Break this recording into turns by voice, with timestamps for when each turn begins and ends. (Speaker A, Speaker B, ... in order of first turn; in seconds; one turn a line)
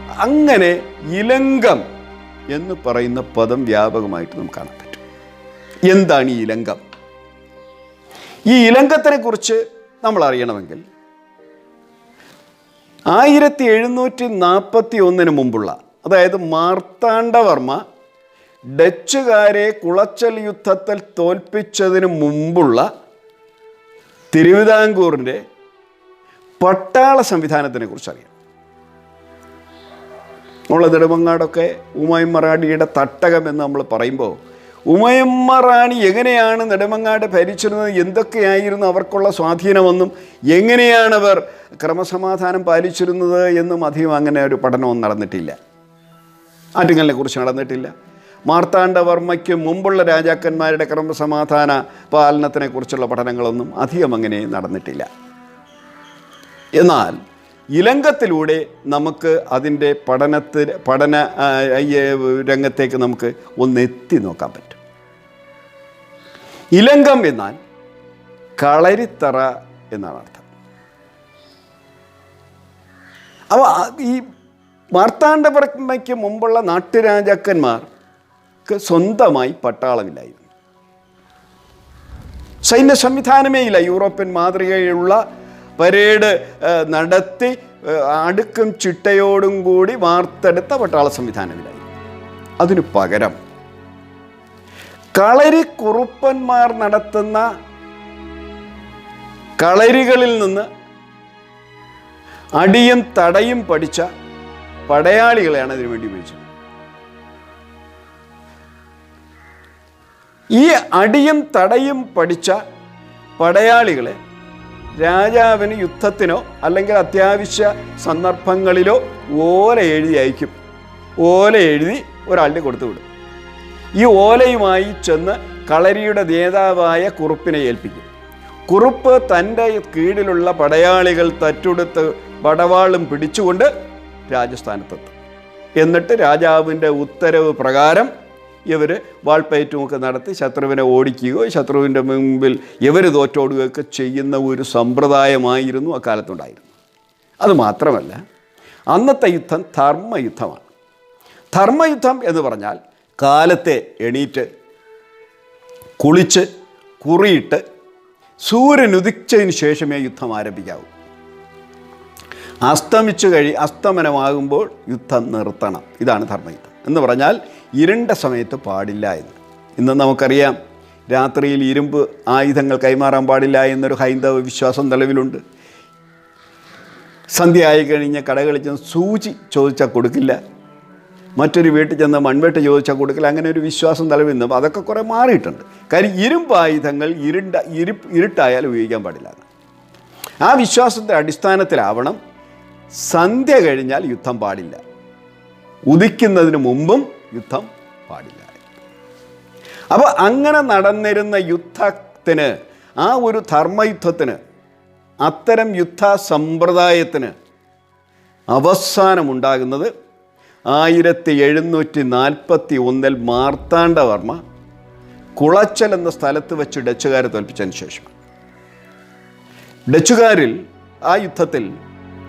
Speaker A: 0.2-1.8
Speaker A: 2.5-5.0
Speaker A: 5.9-6.8
Speaker A: 8.5-10.8
Speaker A: 13.1-17.8
Speaker A: 18.7-22.9
Speaker A: 24.3-25.4
Speaker A: 26.6-28.3
Speaker A: 30.7-34.4
Speaker A: 34.9-45.6
Speaker A: 46.8-47.9
Speaker A: 48.5-55.1
Speaker A: 56.8-57.2
Speaker A: 57.7-64.8
Speaker A: 66.8-67.6
Speaker A: 68.6-70.5
Speaker A: 73.5-74.3
Speaker A: 74.9-77.9
Speaker A: 78.7-80.4
Speaker A: 82.6-85.2
Speaker A: 85.8-91.9
Speaker A: 92.6-93.4
Speaker A: 95.2-97.5
Speaker A: 99.6-100.7
Speaker A: 102.6-104.1
Speaker A: 104.9-106.5
Speaker A: 110.5-112.6
Speaker A: 113.4-114.2
Speaker A: 115.0-120.5
Speaker A: 121.2-123.0
Speaker A: 124.0-128.1
Speaker A: 128.7-133.7
Speaker A: 134.3-135.1
Speaker A: 135.8-138.1
Speaker A: 138.7-146.7
Speaker A: 147.4-148.2
Speaker A: 148.9-150.7
Speaker A: 151.5-154.5
Speaker A: 156.0-156.5
Speaker A: 157.0-157.6
Speaker A: 158.4-160.9
Speaker A: 162.6-170.6
Speaker A: 171.1-175.4
Speaker A: 177.3-180.4
Speaker A: 181.4-189.4
Speaker A: 190.4-192.2
Speaker A: 192.9-194.8
Speaker A: 195.9-198.6
Speaker A: 199.9-204.4
Speaker A: 205.2-207.3
Speaker A: 208.5-209.9
Speaker A: 210.7-214.4
Speaker A: 215.4-218.1
Speaker A: 219.9-221.7